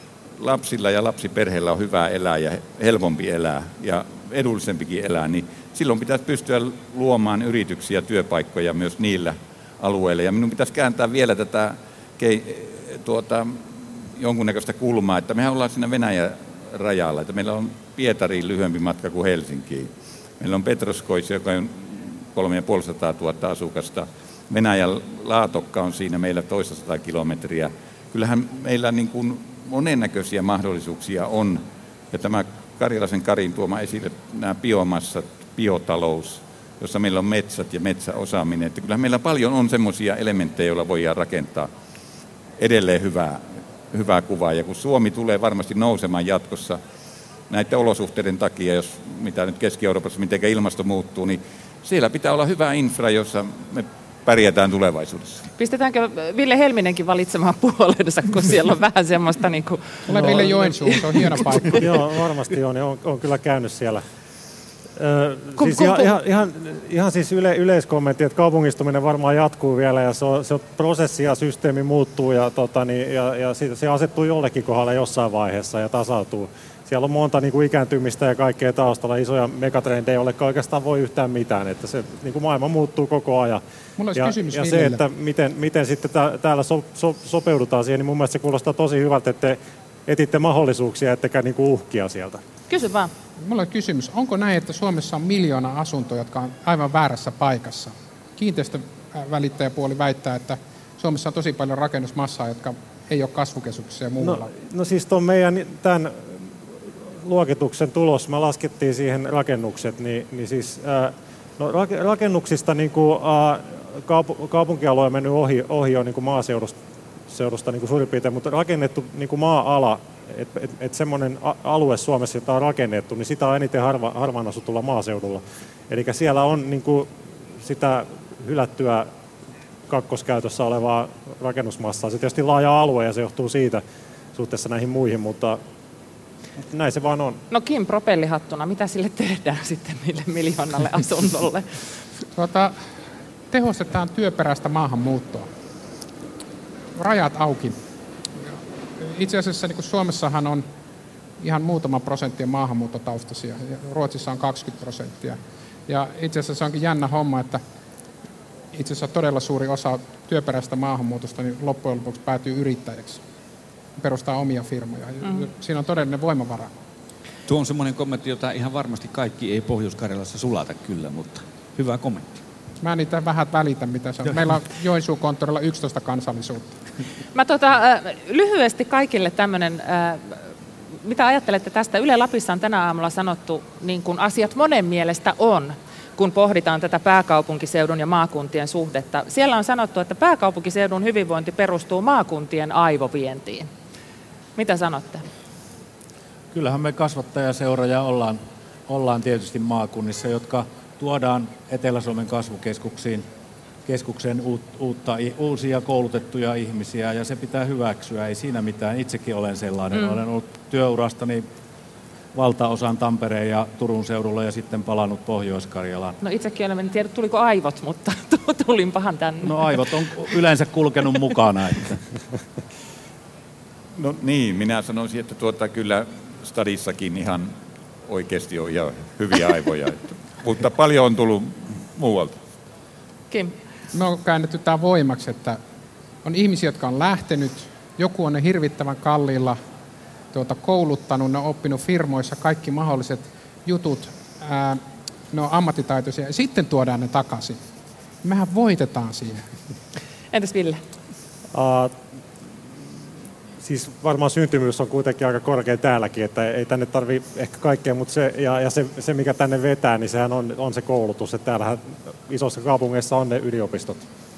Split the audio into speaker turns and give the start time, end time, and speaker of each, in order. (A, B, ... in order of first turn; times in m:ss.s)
0:00.4-0:41.7 A
0:42.6-0:46.8 A
0:47.5-0:55.5 A
0:55.6-1:01.7 B
1:00.1-1:01.8 C
1:00.1-1:00.6 D
1:01.3-1:04.0 D
1:05.0-1:23.6 D
1:05.6-1:06.1 B
1:24.0-1:25.0 C
1:24.2-1:32.4 D
1:32.7-1:33.1 B
1:33.4-1:44.5 C
1:44.2-1:46.5 D
1:47.2-1:56.8 D
1:57.3-2:09.1 D
2:09.9-2:13.8 D
2:14.4-2:15.6 D
2:16.7-2:17.4 D
2:17.5-2:21.7 B
2:22.4-2:22.8 C
2:23.5-2:25.5 C
2:27.0-2:27.8 C
2:29.0-2:30.6 C
2:31.4-2:37.6 C
2:38.7-2:43.2 C
2:44.0-2:46.7 C
2:47.5-2:52.4 E
2:52.8-2:56.7 C
2:57.3-3:00.4 B
3:01.0-3:13.7 B
3:14.6-3:15.2 B
3:16.5-3:23.2 F
3:23.9-3:31.4 F
3:32.3-3:36.2 F
3:36.2-3:39.8 B
3:39.4-3:42.0 F
3:44.0-3:47.5 A
3:48.0-3:52.4 A
3:53.3-3:53.6 B
3:53.9-3:55.6 C
3:56.2-3:59.6 C
4:00.3-4:07.6 C
4:08.2-4:09.4 C
4:10.3-4:10.8 B
4:11.5-4:12.0 D
4:13.6-4:24.1 D